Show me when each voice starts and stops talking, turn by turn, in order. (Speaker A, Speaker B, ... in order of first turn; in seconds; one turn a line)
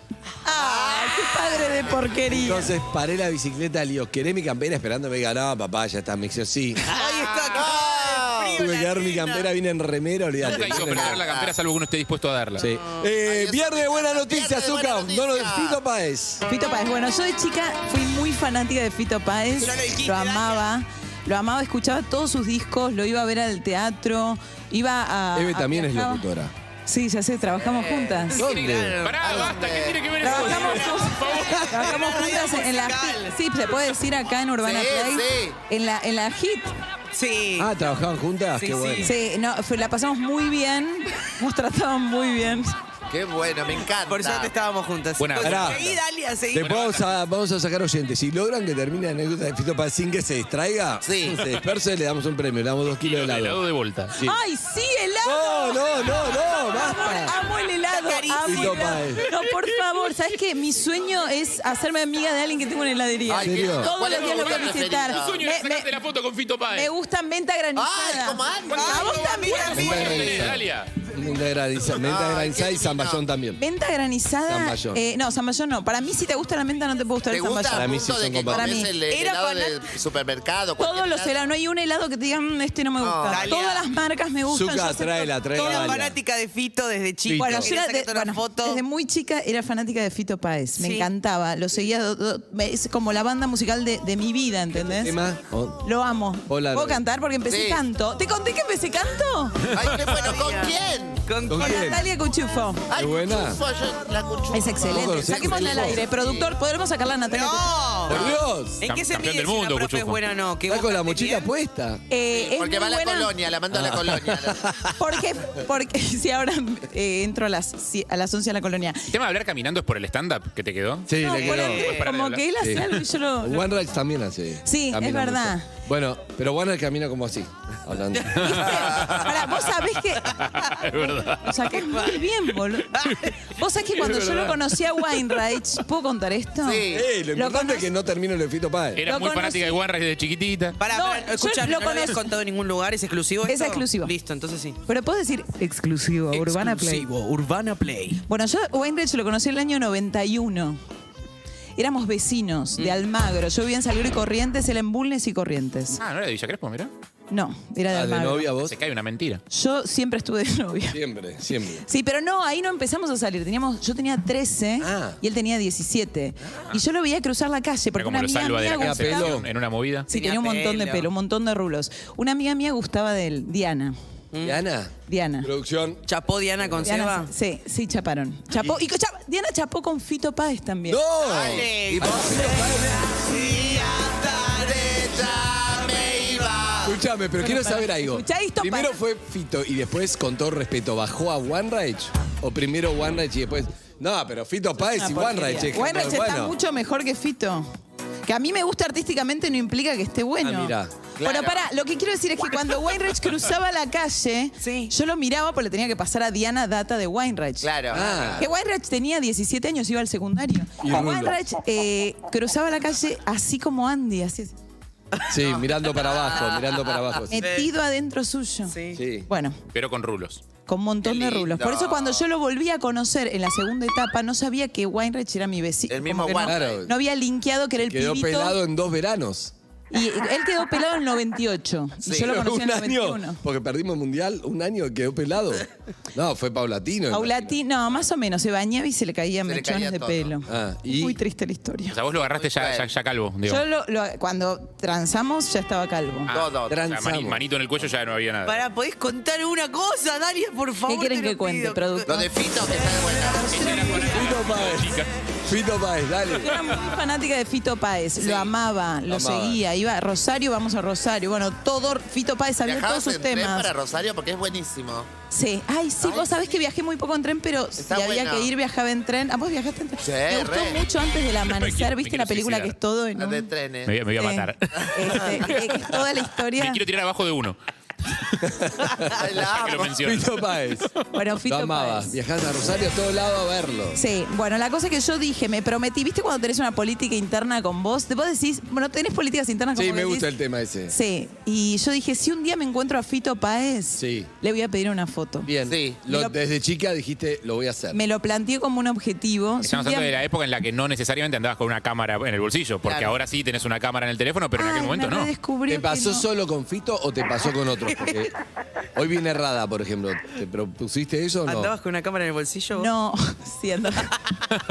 Speaker A: 0.4-2.7
Speaker B: 0.6-1.4
Speaker C: 2.3-6.9
Speaker D: 6.9-9.4
Speaker B: 7.0-8.6
Speaker C: 8.5-11.2
Speaker E: 10.4-12.7
Speaker B: 10.5-11.5
Speaker C: 12.6-16.4
Speaker B: 13.2-15.8
Speaker A: 16.4-26.2
Speaker D: 19.6-20.6
Speaker C: 25.3-26.5
Speaker A: 26.9-28.4
Speaker D: 27.6-29.3
Speaker C: 28.4-29.1
Speaker E: 28.4-31.9
Speaker B: 29.2-30.1
Speaker A: 30.2-36.7
Speaker D: 30.3-33.4
Speaker B: 34.6-35.6
Speaker D: 37.1-37.7
Speaker C: 37.6-39.1
Speaker D: 38.6-39.1
Speaker A: 39.0-42.7
Speaker B: 43.1-44.5
Speaker D: 44.0-46.7
Speaker E: 45.2-45.9
Speaker C: 45.4-45.9
Speaker E: 46.5-47.1
Speaker C: 46.5-53.6
Speaker B: 51.0-51.5
Speaker E: 53.0-54.1
Speaker C: 54.1-54.4
Speaker A: 54.2-65.9
Speaker C: 55.2-57.4
Speaker D: 57.8-59.2
Speaker C: 58.4-59.2
Speaker B: 63.3-65.4
Speaker C: 63.4-63.9
Speaker E: 64.1-66.9
Speaker A: 66.7-70.3
Speaker B: 67.8-69.2
Speaker D: 68.7-70.2
Speaker E: 69.5-70.9
Speaker C: 69.7-73.6
Speaker B: 71.9-73.2
Speaker A: 73.6-78.9
Speaker C: 74.5-75.0
Speaker B: 77.3-81.4
Speaker C: 77.7-78.8
Speaker D: 79.0-79.9
Speaker A: 80.8-85.9
Speaker B: 83.0-83.6
Speaker D: 83.3-83.8
Speaker C: 84.5-86.2
Speaker D: 85.5-88.8
Speaker C: 87.2-87.7
Speaker A: 87.4-95.1
Speaker D: 90.8-91.1
Speaker C: 94.8-95.8
Speaker A: 95.8-99.7
Speaker C: 96.5-97.0
Speaker B: 97.5-97.8
Speaker B: 99.7-101.2
Speaker D: 100.1-100.7
Speaker D: 101.2-102.0
Speaker C: 101.5-102.0
Speaker A: 101.5-102.9
Speaker B: 102.9-106.5
Speaker C: 102.9-103.6
Speaker A: 104.5-107.7
Speaker C: 104.8-106.0
Speaker D: 107.3-111.5
Speaker C: 108.1-108.8
Speaker E: 108.8-110.2
Speaker C: 110.7-112.0
Speaker A: 112.1-113.3
Speaker B: 112.3-114.7
Speaker C: 113.7-114.9
Speaker A: 115.0-119.1
Speaker E: 119.1-121.1
Speaker C: 121.1-121.9
Speaker A: 121.2-123.7
Speaker D: 121.3-122.0
Speaker E: 121.7-122.4
Speaker C: 122.6-129.0
Speaker A: 124.6-125.7
Speaker D: 128.2-128.5
Speaker E: 128.4-131.5
Speaker A: 128.4-130.4
Speaker A: 131.4-137.9
Speaker D: 131.7-132.2
Speaker D: 133.0-133.3
Speaker B: 136.6-137.1
Speaker C: 136.9-139.0
Speaker E: 139.0-140.8
Speaker A: 139.0-139.8
Speaker D: 140.8-144.8
Speaker A: 140.9-142.2
Speaker A: 143.4-144.1
Speaker A: 144.8-147.1
Speaker D: 146.3-148.2
Speaker A: 148.3-150.8
Speaker A: 151.8-156.0
Speaker E: 156.0-156.9
Speaker A: 157.3-158.5
Speaker C: 157.9-158.8
Speaker E: 158.6-159.4
Speaker A: 159.5-161.0
Speaker C: 160.9-161.8
Speaker A: 161.8-169.3
Speaker C: 164.8-165.2
Speaker E: 167.9-170.1
Speaker C: 168.8-169.5
Speaker D: 170.1-171.1
Speaker A: 170.1-173.9
Speaker D: 174.3-174.6
Speaker C: 174.4-176.0
Speaker A: 175.1-175.5
Speaker D: 176.1-177.3
Speaker A: 176.8-181.0
Speaker C: 180.9-183.2
Speaker B: 181.2-182.6
Speaker D: 181.4-184.5
Speaker B: 184.3-187.0
Speaker C: 186.8-196.6
Speaker A: 187.4-188.9
Speaker A: 194.9-197.7
Speaker A: 198.2-207.7
Speaker C: 200.4-200.9
Speaker B: 201.2-201.7
Speaker D: 204.6-204.9
Speaker B: 207.6-208.4
Speaker C: 207.9-208.5
Speaker A: 208.4-214.5
Speaker C: 210.8-211.4
Speaker D: 215.1-217.7
Speaker C: 215.3-217.5
Speaker A: 217.3-219.6
Speaker D: 218.7-219.0
Speaker C: 218.9-219.3
Speaker E: 219.7-220.4
Speaker A: 220.7-228.6
Speaker B: 221.0-222.2
Speaker B: 225.9-226.8
Speaker C: 226.4-226.9
Speaker C: 227.8-229.5
Speaker A: 229.9-233.4
Speaker B: 232.1-232.3
Speaker C: 232.1-237.6
Speaker A: 237.1-241.9
Speaker B: 239.4-240.3
Speaker C: 240.5-241.2
Speaker E: 241.9-243.6
Speaker B: 242.2-242.9
Speaker A: 243.4-246.3
Speaker E: 246.3-248.6
Speaker B: 246.3-246.8
Speaker C: 246.7-247.4
Speaker D: 248.4-252.1
Speaker A: 250.9-252.3
Speaker B: 252.1-254.0
Speaker E: 253.5-255.2
Speaker C: 254.0-256.5
Speaker A: 256.4-263.7
Speaker B: 258.2-258.5
Speaker C: 259.1-259.6
Speaker B: 262.6-265.1
Speaker A: 265.3-273.5
Speaker B: 266.0-266.4
Speaker B: 267.8-268.5
Speaker B: 270.0-270.8
Speaker E: 271.5-272.7
Speaker B: 273.2-273.9
Speaker E: 273.9-276.0
Speaker A: 274.2-276.8
Speaker E: 276.5-277.6
Speaker C: 278.5-279.1
Speaker B: 279.1-280.0
Speaker E: 279.3-280.4
Speaker C: 280.0-280.9
Speaker A: 281.1-282.1
Speaker C: 281.4-284.0
Speaker A: 283.9-290.3
Speaker C: 289.7-290.9
Speaker A: 290.9-295.5
Speaker C: 293.9-294.3
Speaker C: 295.4-298.0
Speaker B: 295.6-296.0
Speaker A: 296.1-296.4
Speaker A: 297.9-300.1
Speaker E: 299.6-305.3
Speaker B: 302.8-303.1
Speaker A: 304.6-306.2
Speaker C: 305.7-308.3
Speaker C: 308.9-311.7
Speaker D: 311.4-312.9
Speaker A: 312.8-314.1